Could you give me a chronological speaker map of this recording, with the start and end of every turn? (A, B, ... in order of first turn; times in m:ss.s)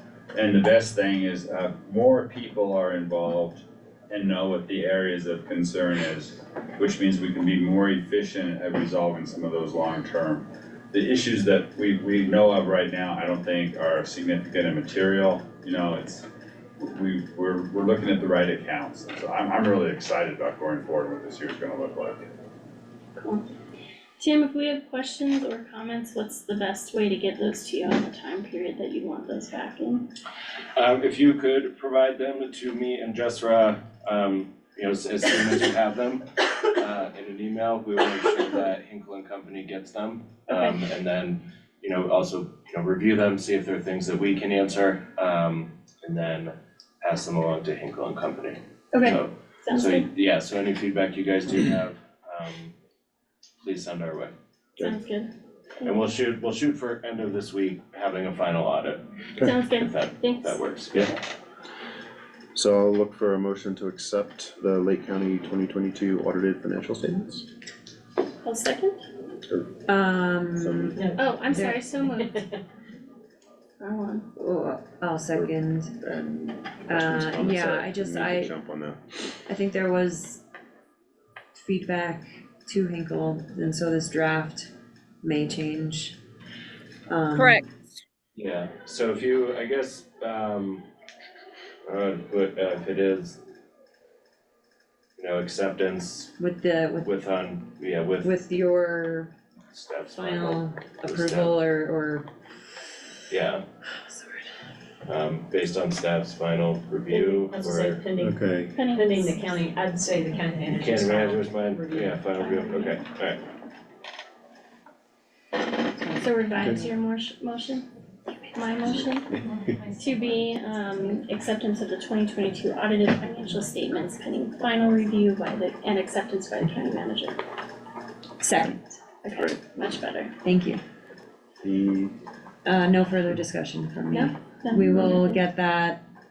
0:00.3-0:16.3 A
0:16.8-0:22.3 A
0:23.2-0:23.4 B
0:24.2-0:30.0 B
0:30.8-0:52.7 C
0:48.9-0:50.0 B
0:53.6-0:54.3 C
0:54.8-0:55.3 B
0:55.8-0:59.1 C
0:59.4-1:00.6 B
0:59.7-1:01.1 C
1:02.5-1:07.5 D
1:08.4-1:09.0 B
1:09.5-1:09.8 D
1:09.9-1:11.9 E
1:10.6-1:11.0 D
1:11.0-1:11.2 F
1:11.2-1:12.4 B
1:12.2-1:12.6 F
1:13.8-1:14.2 B
1:14.4-1:15.9 E
1:15.3-1:19.2 D
1:16.9-1:18.5 E
1:19.5-1:20.4 E
1:21.5-1:24.7 E
1:25.2-1:26.2 E
1:27.1-1:27.6 E
1:28.4-1:30.8 C
1:31.8-1:33.4 C
1:35.2-1:36.3 C
1:36.4-1:37.1 E
1:37.0-1:38.3 C
1:38.2-1:39.3 E
1:39.7-1:41.5 C
1:40.1-1:42.2 E
1:43.3-1:43.6 C
1:44.1-1:44.4 E
1:45.0-1:48.0 C
1:47.1-1:48.3 F
1:48.2-1:48.8 D
1:48.7-1:49.6 B
1:48.9-1:52.9 F
1:50.7-1:53.4 C
1:56.0-1:56.2 E
1:56.2-1:57.8 B
1:56.6-1:56.8 D
1:58.3-1:58.6 E
1:58.5-1:59.3 B
2:00.0-2:07.4 B
2:08.4-2:08.9 E
2:09.2-2:10.3 B
2:09.3-2:09.6 D
2:10.4-2:10.8 E
2:11.6-2:12.1 D
2:12.6-2:16.0 E
2:14.1-2:15.2 B